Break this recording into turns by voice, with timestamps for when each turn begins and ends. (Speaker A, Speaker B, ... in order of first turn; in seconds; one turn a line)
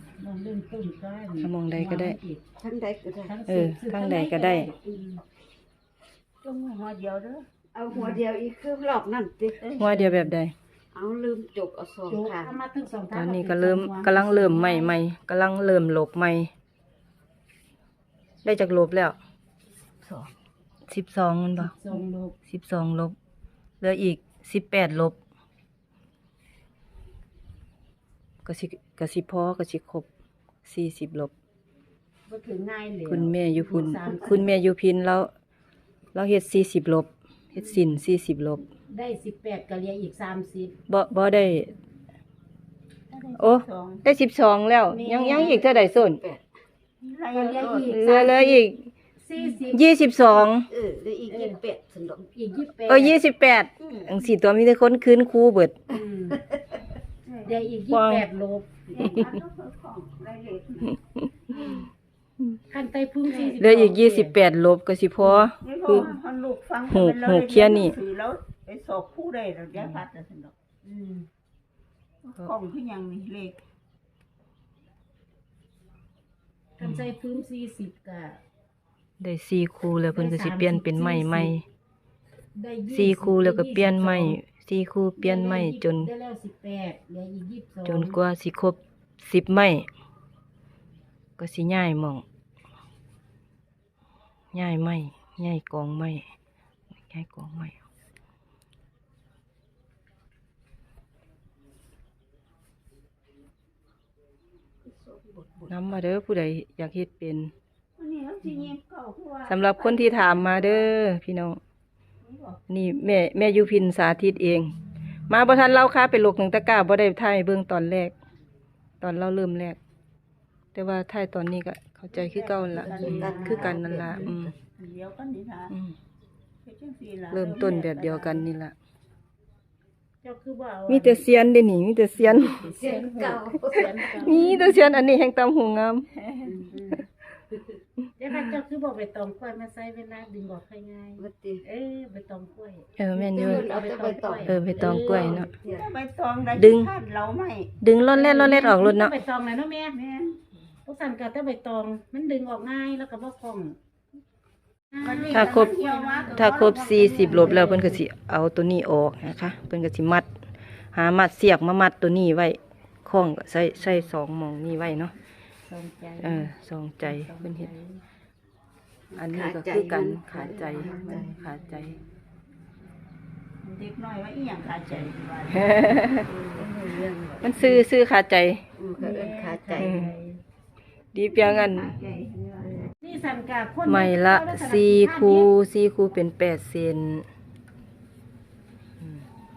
Speaker A: 0.2-2.4
Speaker B: 1.4-2.2
Speaker C: 2.6-3.3
Speaker A: 3.3-5.2
Speaker B: 3.5-4.7
Speaker D: 6.4-7.5
Speaker C: 7.7-9.6
Speaker D: 9.6-10.0
Speaker B: 9.8-10.5
Speaker C: 10.9-12.6
Speaker A: 12.1-15.0
Speaker B: 13.1-16.5
Speaker B: 18.4-19.2
Speaker C: 20.0-20.3
Speaker B: 20.9-21.7
Speaker A: 21.6-22.4
Speaker B: 22.5-23.2
Speaker B: 23.8-25.2
Speaker B: 28.4-30.1
Speaker B: 30.6-31.3
Speaker A: 32.3-34.5
Speaker B: 33.1-35.3
Speaker B: 36.1-38.6
Speaker A: 38.9-40.7
Speaker B: 40.9-41.7
Speaker D: 43.1-44.0
Speaker B: 43.4-46.2
Speaker A: 44.9-45.7
Speaker C: 45.3-46.5
Speaker D: 47.0-48.0
Speaker A: 47.3-49.9
Speaker C: 47.6-48.0
Speaker B: 47.9-48.9
Speaker B: 49.7-50.7
Speaker C: 50.5-52.3
Speaker A: 51.3-51.6
Speaker A: 52.3-53.2
Speaker B: 52.9-55.8
Speaker A: 55.9-56.4
Speaker C: 56.3-56.8
Speaker D: 57.2-57.6
Speaker A: 57.5-58.7
Speaker B: 57.9-58.2
Speaker D: 58.9-61.0
Speaker A: 61.5-61.8
Speaker A: 62.7-64.4
Speaker B: 63.5-66.2
Speaker A: 65.2-65.5
Speaker D: 65.6-70.5
Speaker B: 66.9-68.0
Speaker B: 69.8-70.0
Speaker A: 70.8-71.3
Speaker D: 72.2-73.6
Speaker A: 76.8-78.4
Speaker B: 76.8-77.1
Speaker B: 79.2-81.6
Speaker A: 80.1-81.5
Speaker A: 82.5-84.4
Speaker B: 82.9-86.1
Speaker A: 85.2-88.2
Speaker B: 87.8-89.9
Speaker B: 91.4-92.2
Speaker B: 94.5-96.2
Speaker B: 97.1-97.8
Speaker C: 104.8-105.8
Speaker B: 105.7-107.5
Speaker D: 108.0-110.9
Speaker B: 109.5-111.6
Speaker D: 112.2-112.6
Speaker B: 112.7-114.7
Speaker B: 115.3-118.1
Speaker B: 119.0-119.8
Speaker B: 120.8-124.5
Speaker D: 122.1-123.5
Speaker C: 122.7-124.6
Speaker A: 122.8-123.8
Speaker D: 124.1-125.7
Speaker D: 126.7-128.5
Speaker B: 127.3-128.7
Speaker A: 130.2-131.5
Speaker B: 130.9-132.7
Speaker A: 132.2-135.0
Speaker C: 132.6-134.4
Speaker B: 133.8-136.1
Speaker D: 136.3-136.5
Speaker C: 136.4-136.8
Speaker A: 136.7-137.0
Speaker A: 138.2-145.5
Speaker C: 141.2-141.6
Speaker B: 143.0-143.7
Speaker C: 143.3-145.9
Speaker B: 144.4-145.5
Speaker D: 145.2-147.7
Speaker B: 146.6-146.9
Speaker B: 147.8-149.2
Speaker A: 148.1-149.9
Speaker D: 149.9-150.4
Speaker A: 150.8-153.8
Speaker A: 154.9-158.0
Speaker D: 155.0-156.5
Speaker B: 155.3-155.8
Speaker B: 156.3-160.3
Speaker C: 156.8-158.0
Speaker B: 160.9-165.1
Speaker A: 165.7-166.5
Speaker B: 166.2-167.7
Speaker A: 167.0-168.0
Speaker C: 169.1-171.3
Speaker B: 169.2-172.0
Speaker A: 170.8-171.9
Speaker D: 173.6-176.1
Speaker B: 174.9-176.3
Speaker C: 176.2-177.8
Speaker B: 177.4-178.6
Speaker C: 178.8-180.1
Speaker A: 179.0-180.4
Speaker B: 179.7-180.1
Speaker B: 181.1-182.0
Speaker D: 181.3-182.7
Speaker A: 183.0-185.5
Speaker B: 183.9-187.3